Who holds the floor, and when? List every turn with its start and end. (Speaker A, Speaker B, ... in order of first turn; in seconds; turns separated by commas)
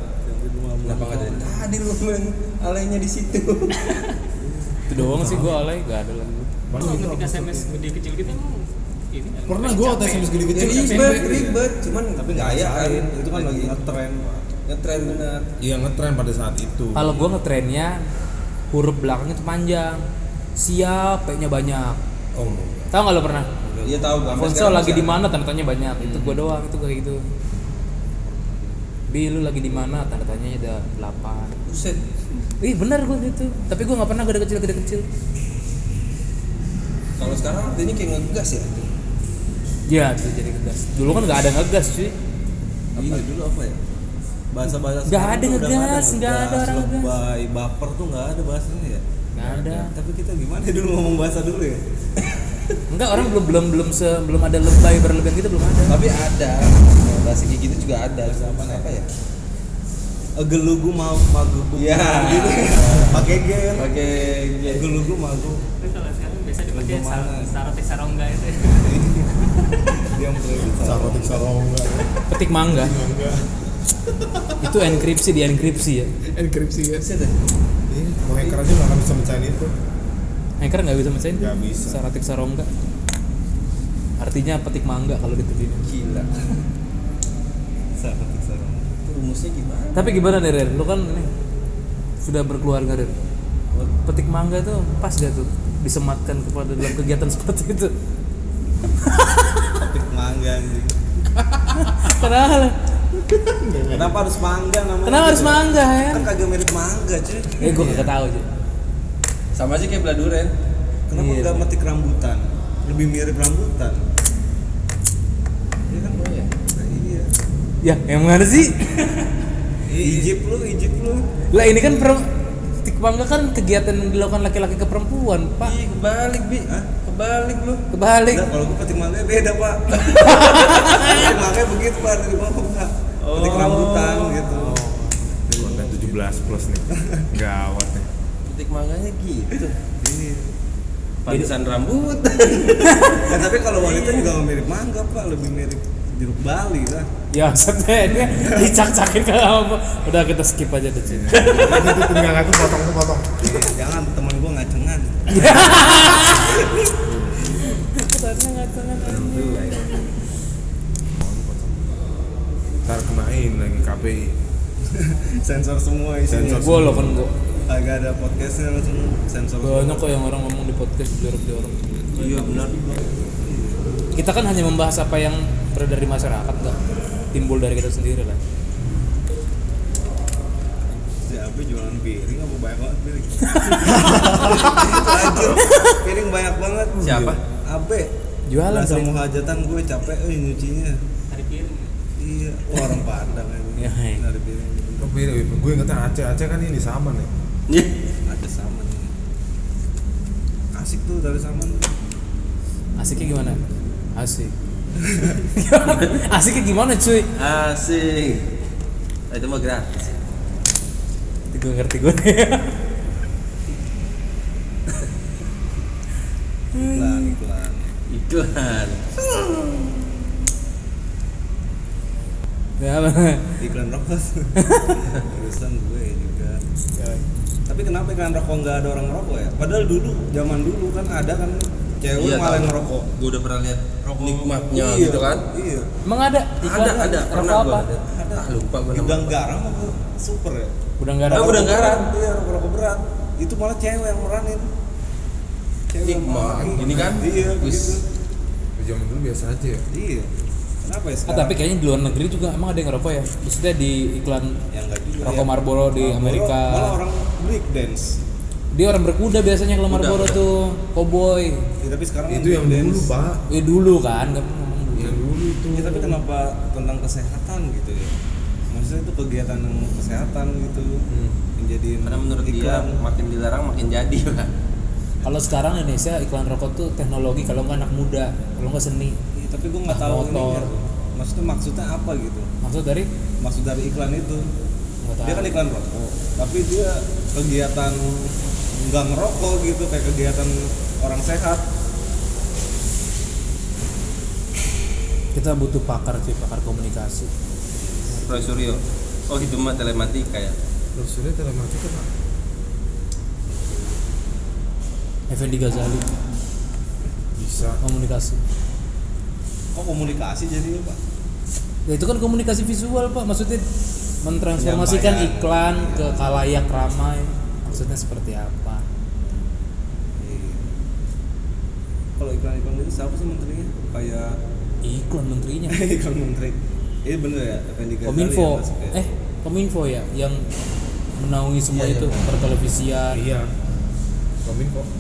Speaker A: 0.2-1.6, Speaker B: 0.8-3.7, Speaker C: 3.9-4.2, Speaker A: 4.4-4.8, Speaker D: 4.9-6.5, Speaker E: 4.9-5.6, Speaker E: 6.7-7.7, Speaker C: 6.8-10.4, Speaker E: 9.5-11.3, Speaker B: 10.5-14.0, Speaker A: 10.8-11.6, Speaker A: 12.2-14.3, Speaker B: 14.7-15.4, Speaker E: 15.6-17.1, Speaker D: 16.9-18.0, Speaker D: 18.7-20.0, Speaker D: 20.6-22.0, Speaker B: 22.4-22.9, Speaker D: 22.9-23.5, Speaker A: 23.6-24.1, Speaker B: 23.8-25.2, Speaker D: 24.3-27.2, Speaker A: 28.3-28.7, Speaker D: 29.1-31.6, Speaker B: 31.6-32.0, Speaker D: 32.6-35.0, Speaker B: 37.2-38.9, Speaker D: 39.9-42.1, Speaker B: 43.0-43.2, Speaker A: 43.0-43.8, Speaker A: 44.5-49.0, Speaker D: 45.0-47.1, Speaker E: 49.3-49.9, Speaker D: 49.4-49.9, Speaker A: 49.9-51.8, Speaker D: 52.9-56.0, Speaker B: 55.9-59.1, Speaker A: 58.2-59.0, Speaker A: 60.4-63.9, Speaker B: 61.8-64.9, Speaker A: 64.7-65.6, Speaker C: 65.8-69.0, Speaker A: 66.7-67.5, Speaker A: 68.8-71.5, Speaker E: 70.6-73.5, Speaker D: 72.3-72.9, Speaker E: 74.1-74.8, Speaker D: 74.6-76.1, Speaker E: 76.3-77.0, Speaker B: 76.9-77.4, Speaker E: 77.9-79.7, Speaker D: 80.6-82.7, Speaker E: 81.3-82.0, Speaker D: 84.2-85.8, Speaker B: 85.8-86.3, Speaker A: 88.0-88.9, Speaker B: 89.0-90.3, Speaker D: 90.0-91.3, Speaker D: 92.2-93.2, Speaker D: 94.0-97.9, Speaker A: 99.8-100.9, Speaker E: 101.3-102.2, Speaker D: 101.8-102.8, Speaker E: 103.1-104.2, Speaker A: 103.9-108.0, Speaker D: 105.0-106.3, Speaker D: 107.6-108.5, Speaker E: 107.7-108.1, Speaker B: 109.5-110.5, Speaker A: 111.1-114.0, Speaker D: 111.1-111.7, Speaker B: 115.9-116.5, Speaker A: 116.7-117.3, Speaker D: 117.8-119.0, Speaker A: 119.9-122.2, Speaker E: 120.0-120.3, Speaker D: 121.5-122.3, Speaker D: 122.8-125.8, Speaker B: 125.6-127.8, Speaker D: 127.9-128.5, Speaker A: 128.3-134.8, Speaker D: 130.2-131.2, Speaker B: 133.2-134.5, Speaker D: 134.5-135.4, Speaker A: 135.5-137.3, Speaker E: 135.5-138.1, Speaker B: 138.4-139.7, Speaker A: 139.5-140.5, Speaker B: 141.2-144.3, Speaker D: 142.9-143.2, Speaker A: 143.2-147.1, Speaker D: 147.3-152.0, Speaker A: 148.3-148.8, Speaker E: 151.1-153.6, Speaker A: 153.4-156.9, Speaker D: 155.3-156.7, Speaker E: 157.0-157.6, Speaker D: 157.6-160.1, Speaker E: 159.1-159.5, Speaker A: 159.1-159.8, Speaker E: 161.2-162.0, Speaker E: 162.8-164.3, Speaker A: 164.9-166.9, Speaker E: 166.3-167.2, Speaker D: 166.4-167.3, Speaker A: 167.6-170.1, Speaker D: 169.6-172.0, Speaker A: 172.1-173.8, Speaker B: 172.1-173.0, Speaker D: 174.2-176.8, Speaker D: 177.3-178.4, Speaker A: 181.2-187.1, Speaker E: 183.8-185.0, Speaker D: 185.6-186.0, Speaker E: 187.0-187.4, Speaker B: 187.0-187.4, Speaker A: 187.7-188.1, Speaker D: 188.5-189.1, Speaker A: 188.6-191.0, Speaker C: 191.3-191.9, Speaker A: 192.2-195.2, Speaker D: 193.8-194.2, Speaker E: 195.0-197.3, Speaker A: 198.3-199.1, Speaker A: 200.7-201.9, Speaker D: 203.0-203.6, Speaker D: 204.2-204.5, Speaker A: 205.0-205.4, Speaker D: 205.5-207.3, Speaker B: 205.9-206.2, Speaker B: 207.4-208.5, Speaker B: 209.3-210.2, Speaker D: 211.5-212.7, Speaker D: 216.7-217.4, Speaker A: 216.8-217.9, Speaker B: 218.1-219.0, Speaker A: 219.3-219.9, Speaker D: 222.8-223.6, Speaker A: 223.6-224.5, Speaker D: 224.6-225.1, Speaker A: 225.2-233.1, Speaker B: 232.2-235.4, Speaker A: 234.0-235.9, Speaker D: 236.1-237.9, Speaker B: 236.6-239.4, Speaker A: 238.1-240.8, Speaker D: 241.0-241.7, Speaker A: 241.3-244.7, Speaker B: 241.3-242.1, Speaker A: 245.9-248.0, Speaker B: 246.0-248.0, Speaker E: 246.8-247.1, Speaker E: 248.8-249.8, Speaker A: 249.9-250.3, Speaker A: 250.8-251.6, Speaker D: 251.3-254.6, Speaker A: 254.7-258.2, Speaker D: 255.2-257.0, Speaker D: 258.7-261.6, Speaker B: 259.9-260.4, Speaker A: 261.8-263.1, Speaker E: 262.3-263.4, Speaker D: 263.5-265.2, Speaker E: 264.9-266.2, Speaker A: 265.7-268.2, Speaker A: 268.7-273.0, Speaker B: 272.0-274.5, Speaker D: 275.2-279.2, Speaker A: 279.4-282.5, Speaker D: 279.9-280.7, Speaker D: 282.6-283.1, Speaker A: 283.4-284.5, Speaker D: 285.0-285.6, Speaker A: 285.2-291.6, Speaker D: 295.4-297.3, Speaker D: 298.1-298.4, Speaker B: 298.2-300.6, Speaker E: 300.9-302.1, Speaker D: 305.3-306.1, Speaker E: 307.4-307.8, Speaker D: 307.8-308.4, Speaker A: 309.7-311.0, Speaker D: 311.9-313.6, Speaker D: 314.2-318.8, Speaker A: 314.6-316.3, Speaker A: 320.2-320.7, Speaker A: 322.2-324.4, Speaker D: 324.8-325.8, Speaker A: 325.7-329.0, Speaker D: 328.1-330.4, Speaker D: 331.2-333.2, Speaker B: 331.7-332.2, Speaker E: 333.1-333.5, Speaker E: 334.4-334.9